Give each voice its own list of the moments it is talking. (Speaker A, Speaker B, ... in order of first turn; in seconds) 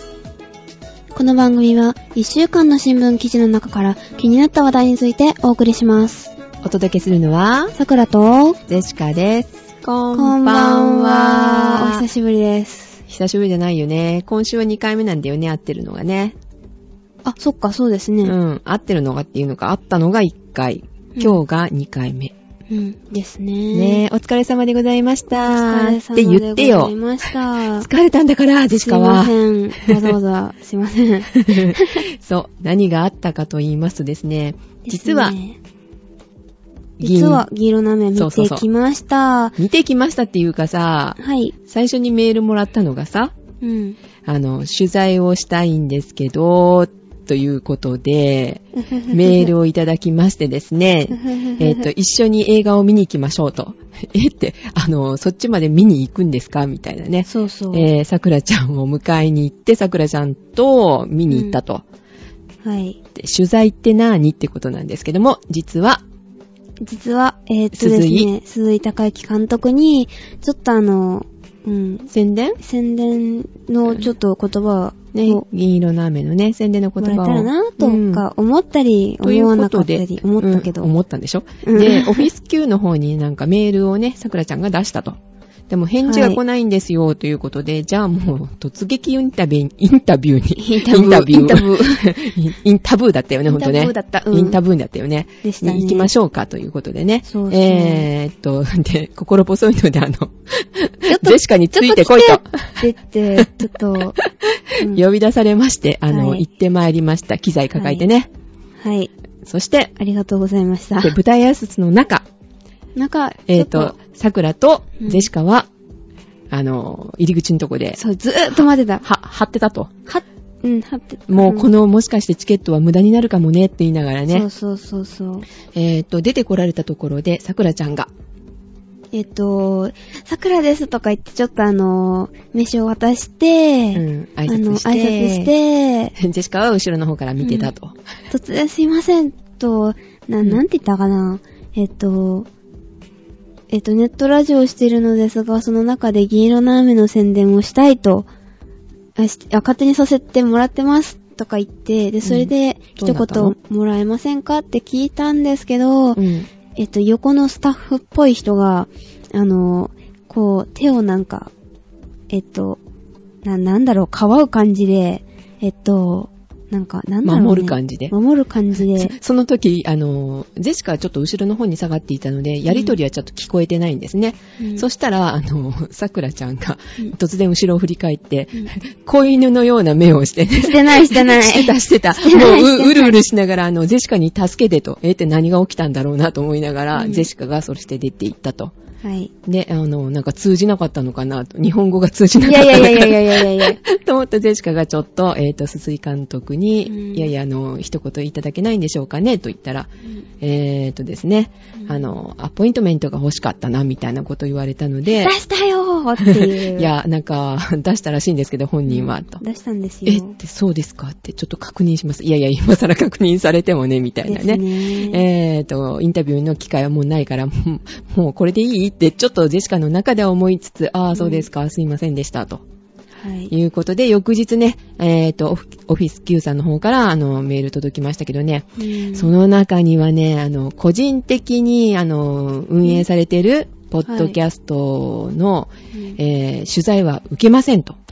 Speaker A: 1.1-6.3, 7.8-8.6, 10.1-13.0, 17.2-18.4, 21.2-21.4, 22.7-24.1, 25.3-27.9, 28.8-32.0, 34.9-35.6, 37.0-39.6, 41.2-41.5, 43.6-44.0, 48.8-49.5, 51.1-51.9, 57.3-57.9, 61.3-61.6, 62.6-63.0, 66.8-72.1, 72.6-75.4, 77.0-80.9, 81.6-82.3, 86.0-86.4, 90.6-92.1, 93.5-94.6, 95.4-96.1, 97.3-98.1, 101.1-104.2, 106.1-106.4, 107.8-108.1, 108.8-109.1, 110.0-111.2, 113.0-114.0, 115.0-115.3, 118.0-119.0, 120.1-121.7, 124.3-125.5, 129.1-136.2, 137.4-137.7, 138.3-142.5, 143.7-148.3, 149.2-156.2, 156.8-161.5, 162.3-162.8, 163.4-169.2, 172.7-173.0, 174.6-174.8, 180.6-183.2, 186.9-187.3, 189.0-189.3, 192.4-193.8, 196.9-197.3, 201.8-202.1, 205.1-206.9, 208.9-210.3, 214.3-215.2, 221.1-221.5, 223.2-223.5, 228.8-229.3, 234.1-234.4, 235.9-236.2
Speaker B: 6.6-7.8, 8.7-12.1, 13.1-16.4, 18.2-22.3, 23.7-26.9, 27.8-30.1, 31.3-35.4, 37.0-37.4, 38.1-38.6, 39.6-43.4, 44.2-61.8, 63.1-66.0, 67.7-68.3, 72.1-72.6, 75.1-78.2, 79.2-85.2, 85.7-102.9, 104.2-108.3, 109.4-109.9, 111.0-112.2, 113.5-115.7, 116.5-118.0, 118.5-119.9, 121.3-124.5, 125.8-128.1, 133.9-135.5, 136.2-138.0, 152.2-153.6, 156.2-156.5, 167.2-168.1, 168.8-188.7, 189.5-199.9, 200.4-205.3, 206.2-209.4, 210.1-222.6, 223.5-238.0